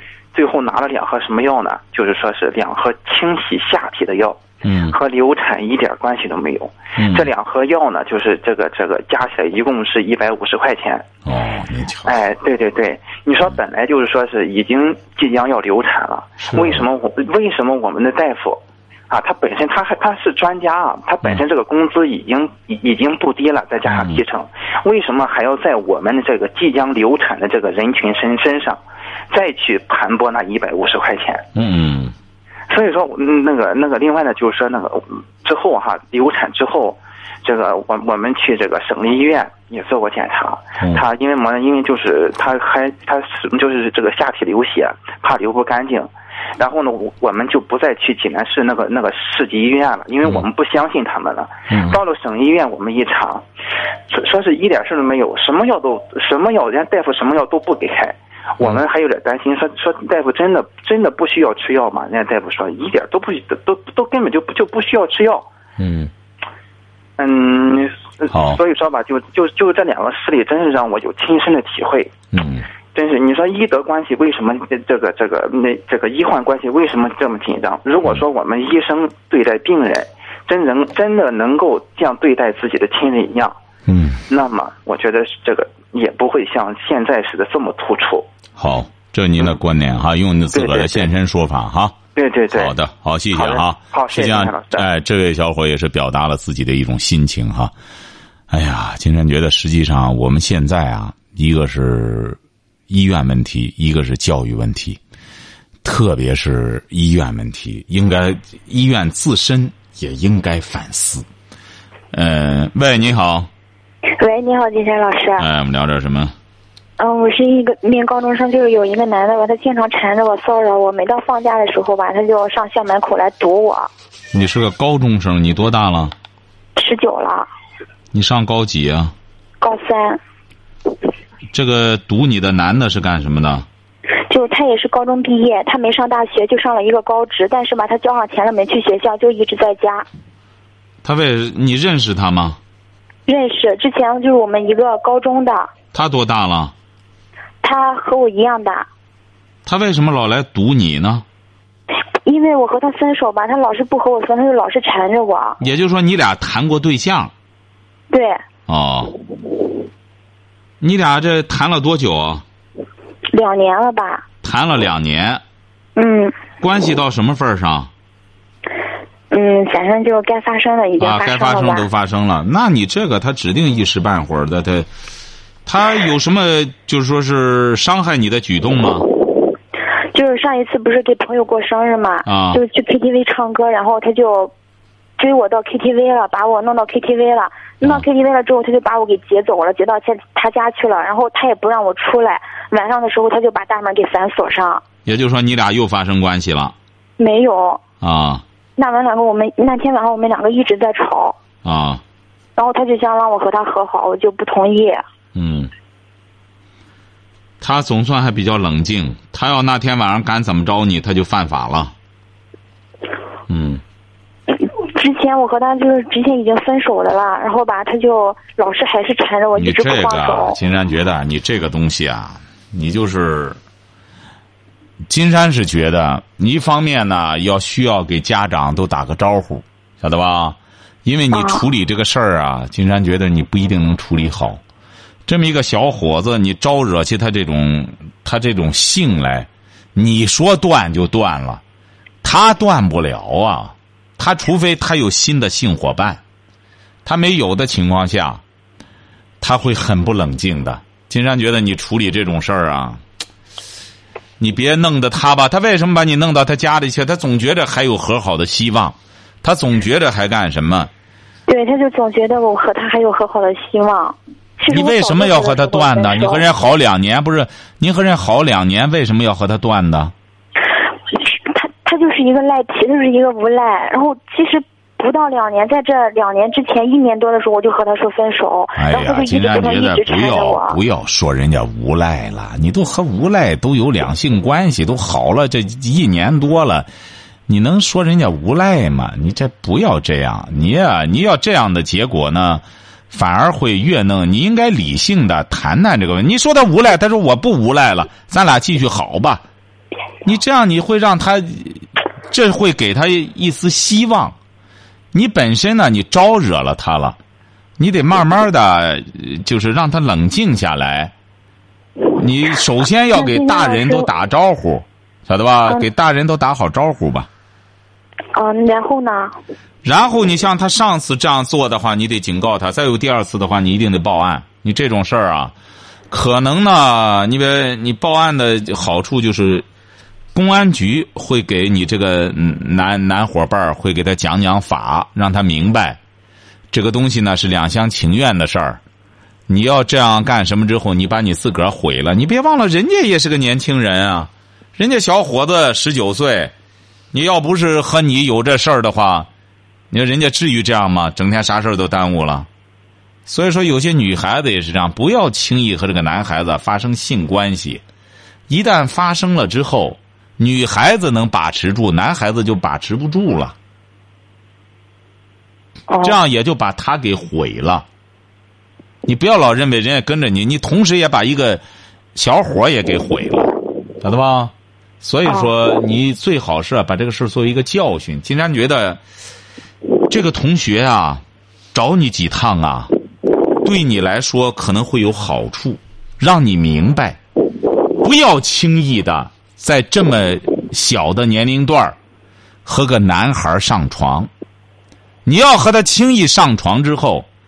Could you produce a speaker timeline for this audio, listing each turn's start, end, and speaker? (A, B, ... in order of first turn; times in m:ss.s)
0:00.3-0:11.0 A
0:04.6-0:05.0 B
0:07.0-0:07.3 B
0:11.2-0:12.2 B
0:12.0-0:28.8 A
0:16.5-0:16.8 B
0:23.9-0:24.2 B
0:29.3-0:31.4 A
0:31.5-0:32.1 B
0:32.7-0:53.4 A
0:51.7-0:52.0 B
0:54.1-1:05.5 A
1:05.8-1:06.1 B
1:07.2-1:12.1 A
1:08.3-1:08.6 B
1:12.3-1:12.7 B
1:12.9-1:23.5 A
1:23.9-1:24.2 B
1:24.3-1:28.3 A
1:28.6-1:32.0 B
1:30.5-1:31.1 A
1:32.2-1:32.7 A
1:32.5-1:37.7 B
1:33.3-1:34.9 A
1:38.5-1:42.4 B
1:42.9-1:45.0 B
1:45.8-1:51.2 B
1:52.1-1:53.5 B
1:54.2-1:55.5 C
1:55.4-1:56.3 B
1:57.0-2:03.9 C
2:04.3-2:06.1 B
2:06.8-2:07.5 C
2:08.1-2:09.1 B
2:09.6-2:10.2 C
2:11.5-2:13.6 B
2:14.3-2:20.0 C
2:21.0-2:22.6 B
2:23.3-2:25.7 C
2:25.9-2:26.7 B
2:27.6-2:28.9 C
2:29.6-2:31.2 B
2:32.2-2:35.6 C
2:35.6-2:37.3 B
2:38.1-2:38.4 C
2:38.7-2:39.1 B
2:40.8-2:42.4 B
2:43.3-2:44.2 C
2:44.4-2:45.4 B
2:46.0-2:46.3 C
2:46.6-2:47.9 B
2:49.3-2:51.9 C
2:51.0-2:54.9 B
2:55.6-2:59.0 B
3:00.1-3:04.5 C
3:02.2-3:02.6 B
3:05.2-3:14.8 C
3:15.0-3:16.7 B
3:17.2-3:17.8 C
3:18.0-3:18.4 B
3:18.8-3:21.4 C
3:21.6-3:22.0 B
3:22.6-3:25.0 C
3:25.3-3:25.7 B
3:27.6-3:31.9 B
3:33.5-3:33.8 B
3:34.5-3:40.6 C
3:39.6-3:43.6 B
3:45.1-3:54.6 B
3:51.3-3:51.6 C
3:55.3-4:01.6 B
4:02.2-4:06.2 B
4:07.0-4:08.4 B
4:09.4-4:13.0 B
4:14.4-4:20.9 B
4:21.5-4:26.4 C
4:24.7-4:30.1 B
4:31.1-4:40.8 C
4:38.8-4:46.9 B
4:47.5-4:59.4 B
5:00.2-5:04.4 B
5:05.1-5:07.2 B
5:07.8-5:11.1 B
5:12.1-5:17.3 B
5:13.1-5:14.1 C
5:18.3-5:19.3 C
5:19.8-5:25.5 B
5:26.1-5:29.6 B
5:30.3-5:36.0 B
5:36.7-5:38.8 B
5:39.5-5:46.5 B
5:47.1-5:49.3 B
5:49.9-5:52.5 B
5:53.2-5:57.8 B
5:58.5-6:03.5 B
6:05.9-6:06.2 C
6:06.0-6:07.8 B
6:09.0-6:11.6 B
6:12.1-6:19.0 B
6:20.1-6:21.2 B
6:21.7-6:22.9 B
6:23.6-6:27.2 B
6:27.9-6:32.0 B
6:32.6-6:34.3 B
6:35.2-6:37.3 B